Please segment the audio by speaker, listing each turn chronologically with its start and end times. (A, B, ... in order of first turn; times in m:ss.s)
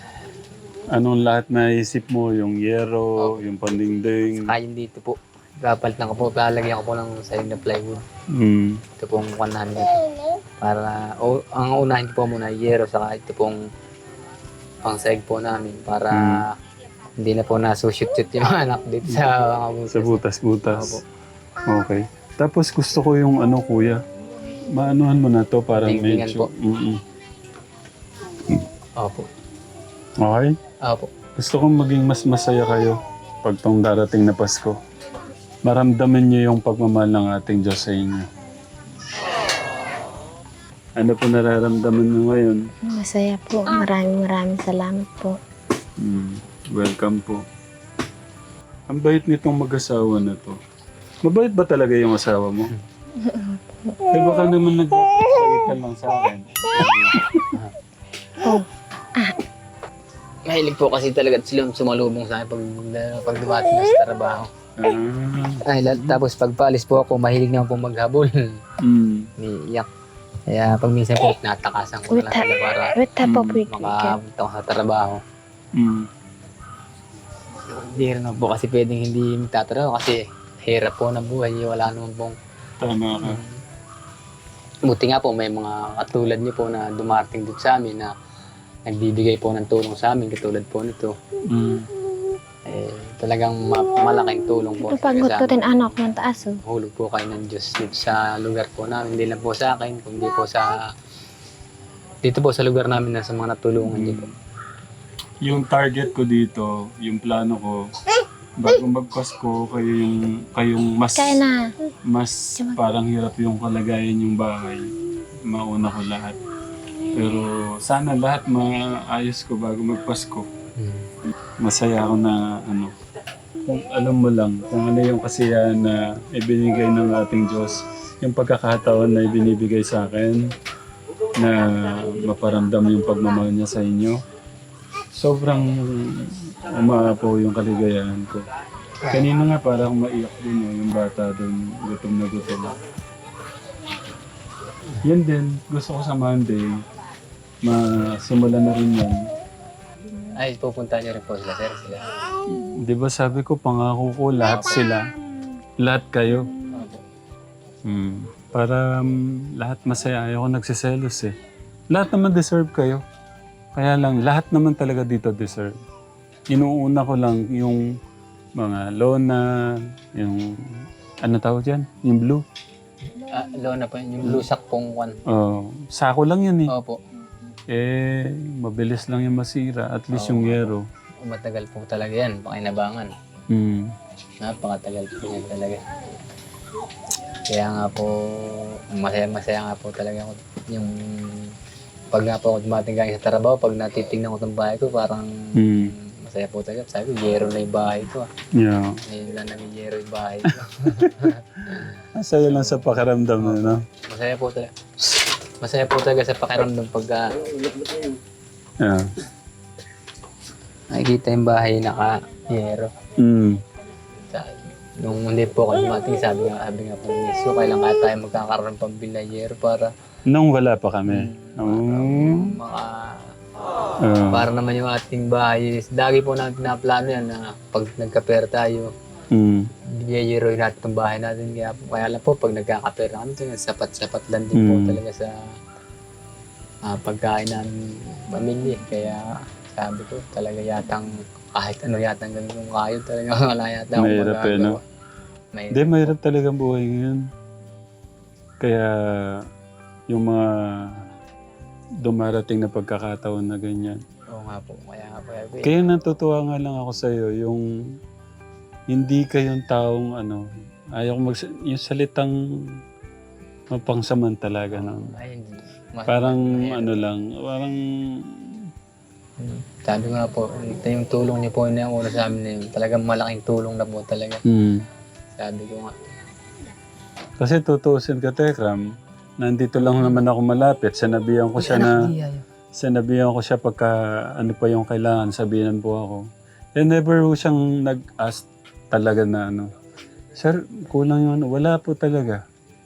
0:00.9-0:04.5 A
0:04.4-0:08.0 B
0:08.4-0:08.8 A
0:09.0-0:10.0 B
0:10.6-0:13.6 B
0:14.8-0:16.5 B
0:16.1-0:16.4 A
0:17.2-0:21.0 B
0:19.9-0:21.0 A
0:21.7-0:24.0 A
0:24.7-0:27.0 A
0:25.8-0:26.5 B
0:29.0-0:29.3 B
0:30.2-0:30.6 A
0:30.8-0:31.1 B
0:31.4-0:34.8 A
0:35.6-0:38.3 A
0:41.0-0:42.6 A
0:42.8-0:45.4 C
0:46.0-0:47.4 A
0:48.9-0:50.6 A
0:51.2-0:52.7 A
0:53.2-0:54.0 C
0:54.1-0:57.6 A
0:58.4-0:59.4 C
1:00.5-1:04.5 B
1:04.8-1:06.2 A
1:05.7-1:08.6 B
1:08.8-1:09.3 A
1:09.4-1:09.9 B
1:10.5-1:13.0 B
1:12.1-1:14.2 C
1:13.2-1:13.6 A
1:13.7-1:15.2 B
1:15.8-1:16.1 A
1:17.7-1:22.4 B
1:22.8-1:23.4 A
1:23.2-1:23.6 B
1:24.8-1:28.1 B
1:28.9-1:31.2 B
1:31.5-1:31.9 A
1:32.7-1:35.7 B
1:34.8-1:36.6 C
1:36.6-1:40.8 B
1:42.2-1:44.3 B
1:43.8-1:44.3 A
1:45.4-1:47.8 A
1:48.6-1:51.4 A
1:51.2-1:51.7 C
1:52.1-1:54.9 A
1:55.4-1:56.4 A
1:57.2-2:00.5 A
2:00.8-2:01.1 B
2:01.6-2:02.9 A
2:03.7-2:10.5 A
2:11.4-2:14.2 A
2:15.1-2:18.4 A
2:19.1-2:22.7 A
2:25.0-2:26.8 A
2:27.6-2:29.2 A
2:30.4-2:32.1 B
2:32.5-2:35.1 A
2:35.8-2:36.5 A
2:36.7-2:37.0 B
2:37.9-2:41.3 A
2:41.9-2:43.0 A
2:43.8-2:45.8 A
2:46.5-2:47.9 A
2:48.6-2:50.6 A
2:51.2-2:52.4 A
2:53.2-2:55.2 B
2:55.3-2:56.7 A
2:56.7-2:57.0 B
2:57.7-3:00.8 A
3:00.1-3:03.1 B
3:03.5-3:03.9 A
3:04.4-3:05.8 B
3:07.5-3:11.5 B
3:12.1-3:18.3 B
3:15.6-3:15.9 A
3:18.6-3:19.0 A
3:19.1-3:21.9 B
3:20.8-3:23.8 A
3:23.4-3:24.7 B
3:25.6-3:27.4 B
3:28.8-3:29.1 A
3:30.9-3:32.9 B
3:33.2-3:33.6 A
3:34.3-3:39.9 B
3:40.3-3:42.5 A
3:41.1-3:43.2 B
3:44.0-3:44.5 A
3:44.3-3:48.9 B
3:49.3-3:49.7 A
3:49.9-3:55.6 B
3:54.6-3:55.0 A
3:56.8-4:04.8 B
4:04.0-4:04.8 A
4:05.5-4:06.1 B
4:05.7-4:07.2 A
4:08.6-4:09.4 A
4:10.1-4:11.0 A
4:12.0-4:14.0 A
4:14.3-4:15.8 B
4:15.6-4:17.6 A
4:18.9-4:22.3 A
4:23.7-4:25.1 A
4:24.7-4:27.0 B
4:26.1-4:27.8 A
4:29.4-4:34.4 B
4:34.5-4:34.8 A
4:35.4-4:35.9 B
4:37.4-4:38.8 A
4:39.4-4:42.1 A
4:39.8-4:40.2 B
4:41.6-4:42.4 B
4:42.8-4:46.2 A
4:46.8-4:49.7 A
4:50.4-4:52.4 A